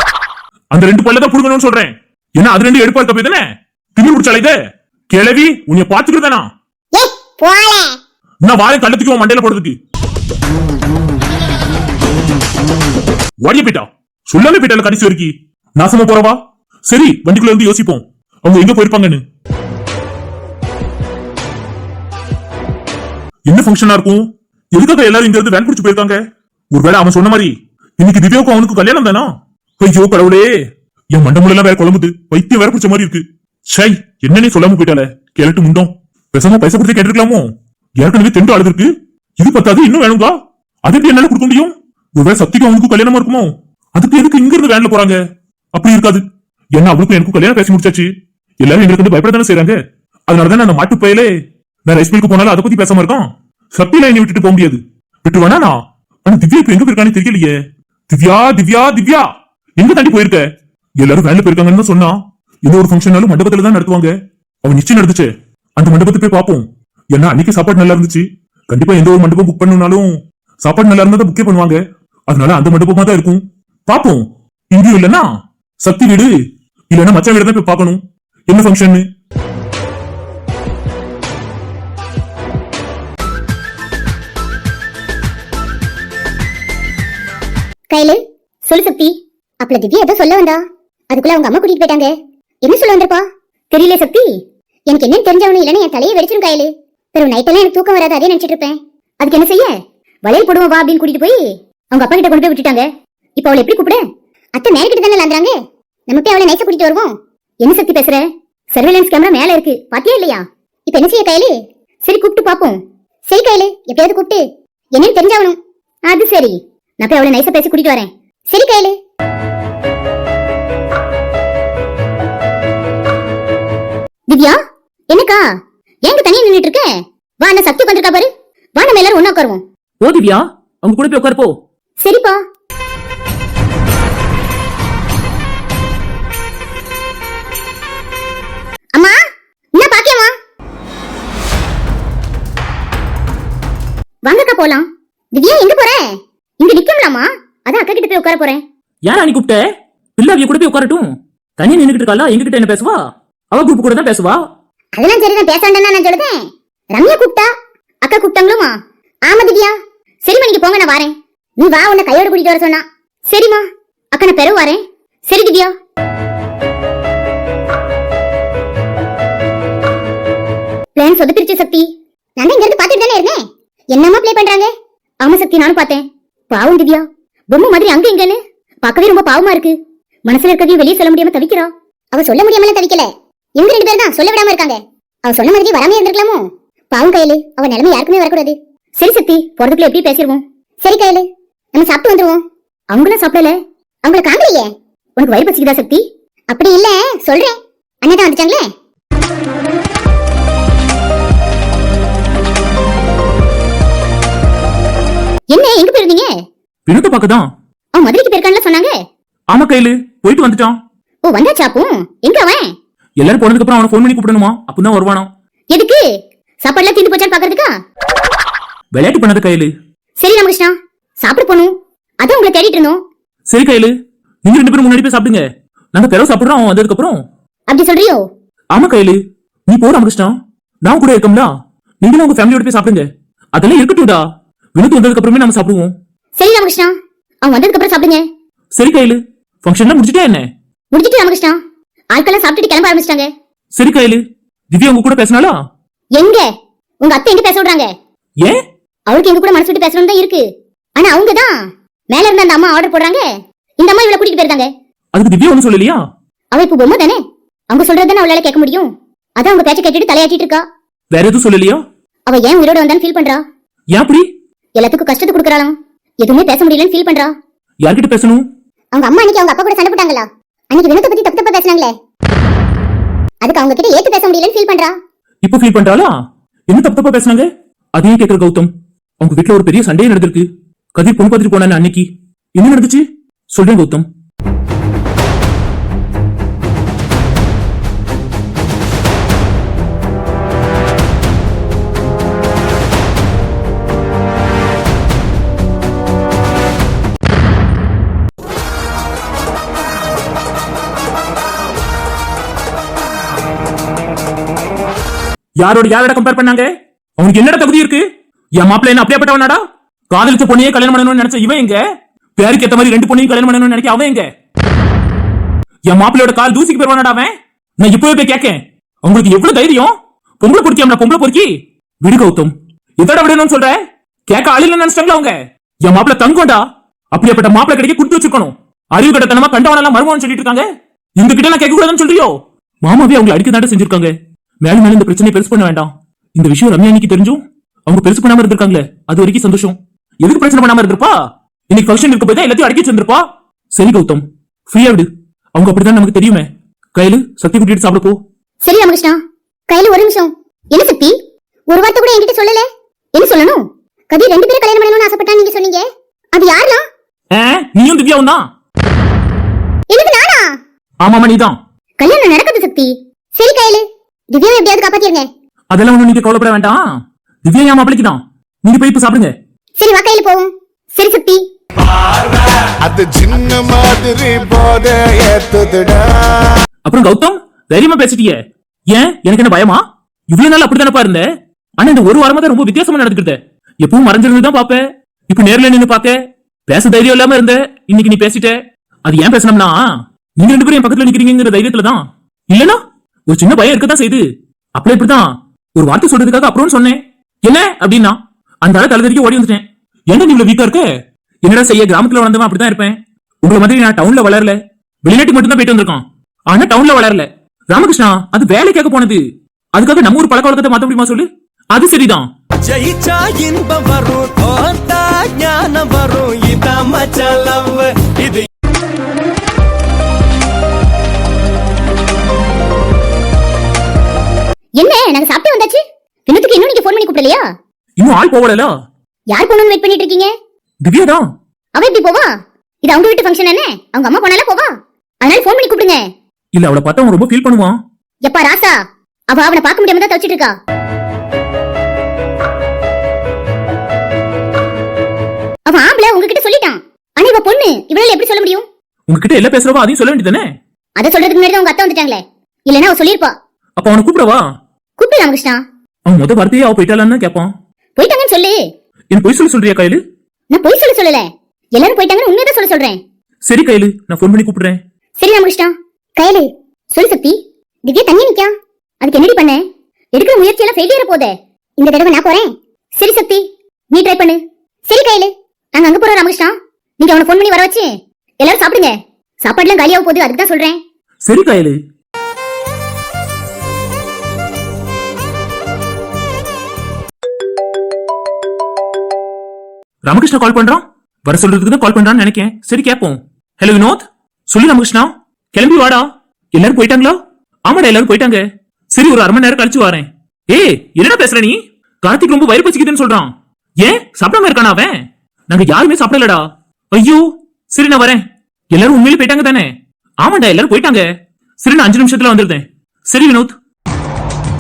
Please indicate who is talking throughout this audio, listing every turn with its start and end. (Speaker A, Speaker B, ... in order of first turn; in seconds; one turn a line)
Speaker A: 0.7-3.5
Speaker A: 4.0-4.6
Speaker A: 5.1-6.5
Speaker B: 7.0-8.0
Speaker A: 8.4-9.8
Speaker A: 13.4-19.2
Speaker A: 23.5-26.2
Speaker A: 26.7-29.3
Speaker A: 29.8-30.5
Speaker A: 31.1-40.3
Speaker A: 40.9-45.2
Speaker A: 45.7-46.2
Speaker A: 46.8-48.1
Speaker A: 48.6-49.8
Speaker A: 50.3-51.3
Speaker A: 51.9-57.5
Speaker A: 58.1-59.3
Speaker A: 59.8-60.5
Speaker A: 61.0-64.1
Speaker A: 64.7-75.3
Speaker A: 75.8-76.3
Speaker A: 76.9-79.0
Speaker B: 87.9-94.3
Speaker B: 94.9-99.7
Speaker B: 100.2-101.4
Speaker B: 101.9-104.0
Speaker B: 104.6-105.5
Speaker B: 106.1-114.4
Speaker B: 115.0-115.6
Speaker B: 116.1-119.0
Speaker B: 124.3-124.6
Speaker B: 125.1-125.4
Speaker B: 126.1-126.9
Speaker B: 127.4-129.6
Speaker C: 130.0-131.6
Speaker B: 132.0-132.4
Speaker B: 139.8-140.3
Speaker B: 144.3-146.1
Speaker B: 146.6-148.6
Speaker C: 149.1-149.6
Speaker C: 150.2-151.1
Speaker C: 151.6-153.0
Speaker C: 153.5-154.4
Speaker B: 155.0-157.5
Speaker B: 158.0-158.8
Speaker B: 159.3-165.7
Speaker B: 171.0-171.9
Speaker B: 172.4-173.4
Speaker B: 173.9-174.7
Speaker B: 175.2-179.8
Speaker B: 180.3-198.7
Speaker B: 205.5-206.3
Speaker C: 206.9-207.5
Speaker B: 208.0-208.9
Speaker C: 209.5-210.8
Speaker B: 211.3-212.7
Speaker C: 213.2-215.3
Speaker B: 215.7-216.0
Speaker B: 216.6-217.7
Speaker C: 218.9-219.7
Speaker B: 220.2-223.0
Speaker C: 223.5-223.9
Speaker C: 224.4-227.2
Speaker B: 227.7-228.2
Speaker C: 228.7-234.2
Speaker C: 234.8-235.9
Speaker B: 236.4-238.2
Speaker C: 238.8-240.5
Speaker B: 240.9-241.6
Speaker B: 242.1-243.3
Speaker C: 243.8-245.6
Speaker B: 246.2-246.5
Speaker B: 247.0-247.9
Speaker B: 249.1-250.4
Speaker B: 251.0-251.6
Speaker B: 252.1-253.2
Speaker B: 253.8-254.7
Speaker C: 255.2-256.0
Speaker B: 256.5-257.2
Speaker B: 257.7-260.6
Speaker C: 261.1-261.8
Speaker B: 262.3-263.4
Speaker C: 263.9-264.3
Speaker B: 264.8-267.3
Speaker C: 267.8-268.4
Speaker B: 268.9-271.9
Speaker B: 273.4-274.9
Speaker C: 275.4-276.1
Speaker C: 276.7-284.1
Speaker C: 305.6-308.0
Speaker C: 308.6-311.8
Speaker C: 312.4-314.3
Speaker C: 315.9-330.7
Speaker C: 331.2-341.1
Speaker C: 341.7-348.2
Speaker B: 348.6-349.2
Speaker B: 349.7-351.2
Speaker B: 351.7-356.8
Speaker C: 357.3-358.5
Speaker B: 359.9-360.5
Speaker C: 361.0-361.6
Speaker B: 362.0-365.3
Speaker C: 365.7-366.8
Speaker C: 367.4-369.3
Speaker B: 369.8-371.4
Speaker D: 372.8-376.4
Speaker C: 376.9-378.4
Speaker C: 378.9-381.2
Speaker C: 381.8-394.2
Speaker C: 394.8-400.9
Speaker C: 401.4-409.2
Speaker C: 409.8-412.3
Speaker E: 412.7-418.5
Speaker B: 424.8-427.4
Speaker C: 428.0-428.7
Speaker B: 429.3-430.3
Speaker C: 430.8-431.3
Speaker B: 431.8-432.3
Speaker B: 432.8-434.7
Speaker B: 435.2-436.0
Speaker C: 436.6-437.8
Speaker B: 438.2-438.8
Speaker B: 439.3-440.6
Speaker B: 445.7-448.7
Speaker C: 449.1-450.5
Speaker B: 451.0-453.3
Speaker C: 453.8-454.4
Speaker B: 455.0-455.6
Speaker C: 456.1-457.5
Speaker B: 458.0-458.6
Speaker C: 459.1-460.0
Speaker B: 460.5-463.0
Speaker C: 463.4-464.8
Speaker B: 465.2-468.5
Speaker B: 469.0-469.6
Speaker B: 470.2-477.9
Speaker B: 478.4-480.8
Speaker C: 481.2-481.8
Speaker C: 490.1-511.1
Speaker C: 511.6-513.5